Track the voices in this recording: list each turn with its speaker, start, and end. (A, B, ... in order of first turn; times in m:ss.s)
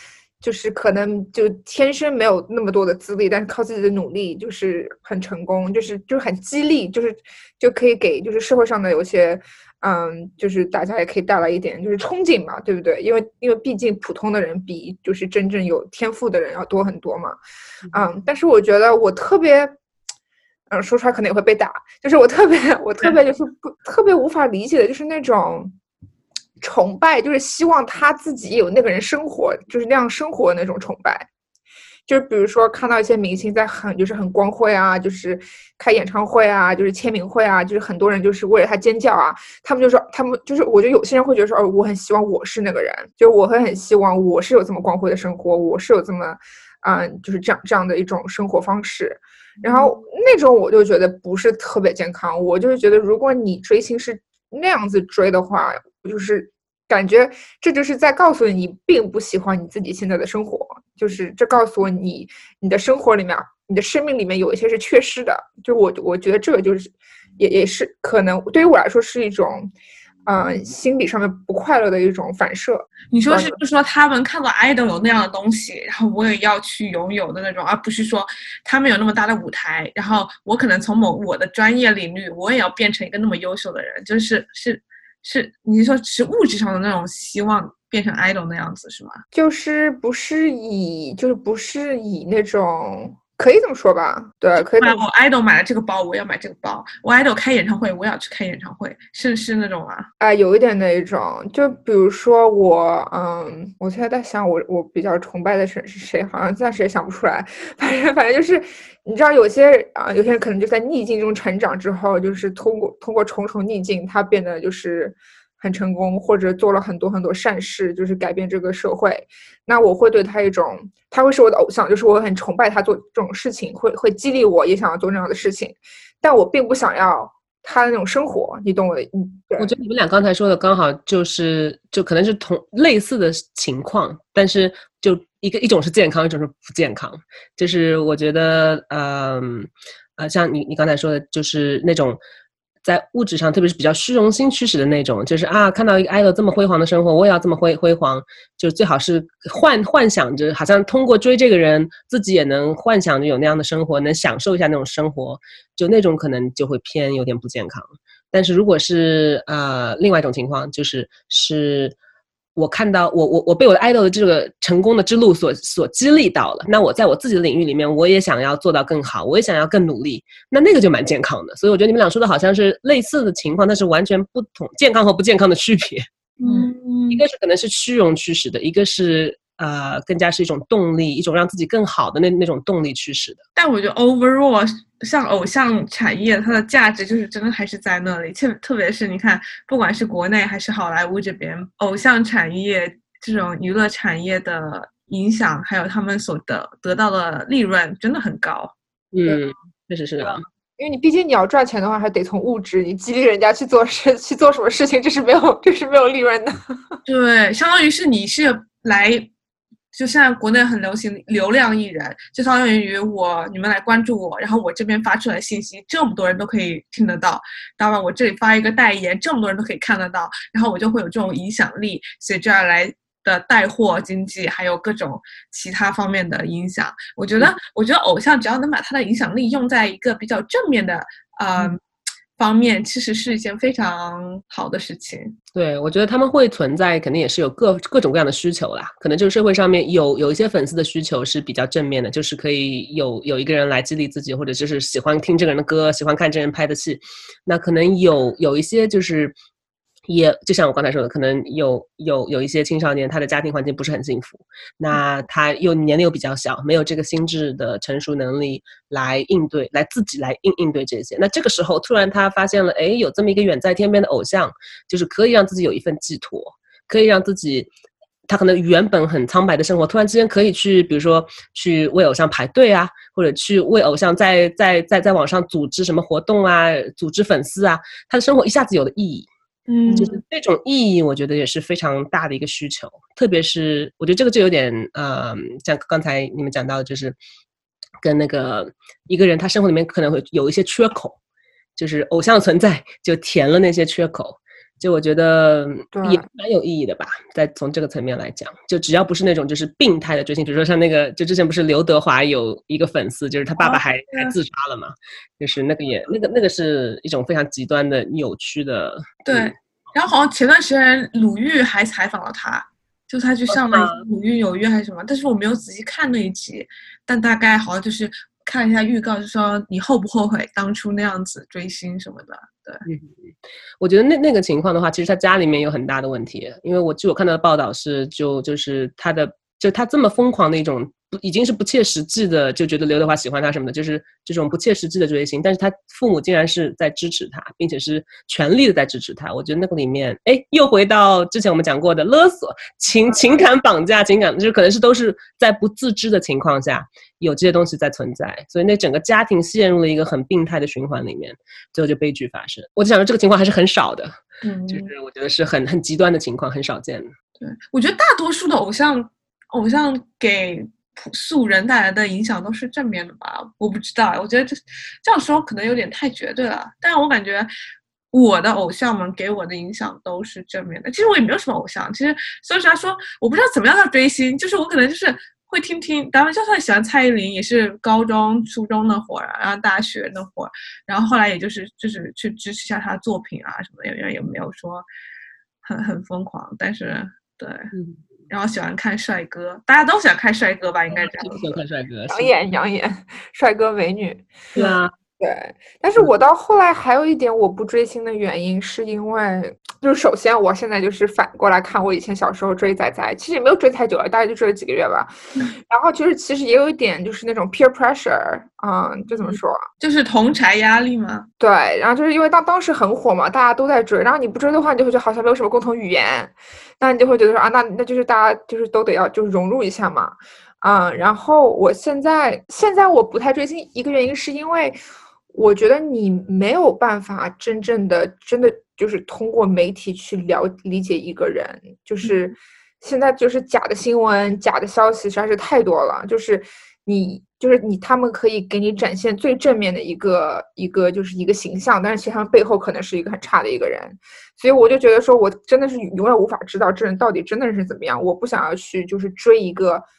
0:00.4-0:17.4 A
0:17.9-0:19.7 A
0:20.7-0:25.7 A
0:26.6-0:31.3 A
0:32.1-1:09.7 A
0:49.6-0:50.0 B
1:10.2-1:13.6 A
1:13.1-1:29.2 B
1:29.3-1:35.0 A
1:34.6-1:40.1 B
1:40.2-2:09.7 A
2:09.6-2:22.2 C
2:22.8-2:42.0 C
2:42.6-2:56.1 C
2:56.4-2:57.2 B
2:56.4-2:56.7 A
2:57.1-3:03.4 C
3:03.6-3:18.7 B
3:19.1-3:20.4 C
3:20.8-3:26.8 A
3:27.1-3:29.3 B
3:29.9-3:51.8 B
3:52.4-3:55.4 B
3:55.5-4:09.3 C
4:10.1-4:27.7 C
4:28.3-4:39.3 C
4:39.7-4:40.2 B
4:39.9-4:40.1 A
4:40.0-4:47.2 C
4:48.0-4:51.2 C
4:51.8-5:09.5 C
4:55.9-4:56.2 A
5:03.6-5:04.4 B
5:09.3-5:22.8 B
5:13.5-5:14.0 C
5:22.8-5:57.1 C
5:54.4-5:54.9 B
5:57.4-6:07.5 B
6:08.1-6:24.9 B
6:25.6-6:27.7 B
6:27.7-6:28.1 C
6:28.3-6:31.5 B
6:30.9-6:32.3 C
6:32.1-6:34.3 A
6:34.5-6:34.9 C
6:35.2-6:45.1 A
6:45.7-6:49.6 A
6:49.2-6:51.3 B
6:51.4-7:04.8 A
7:05.3-7:29.8 A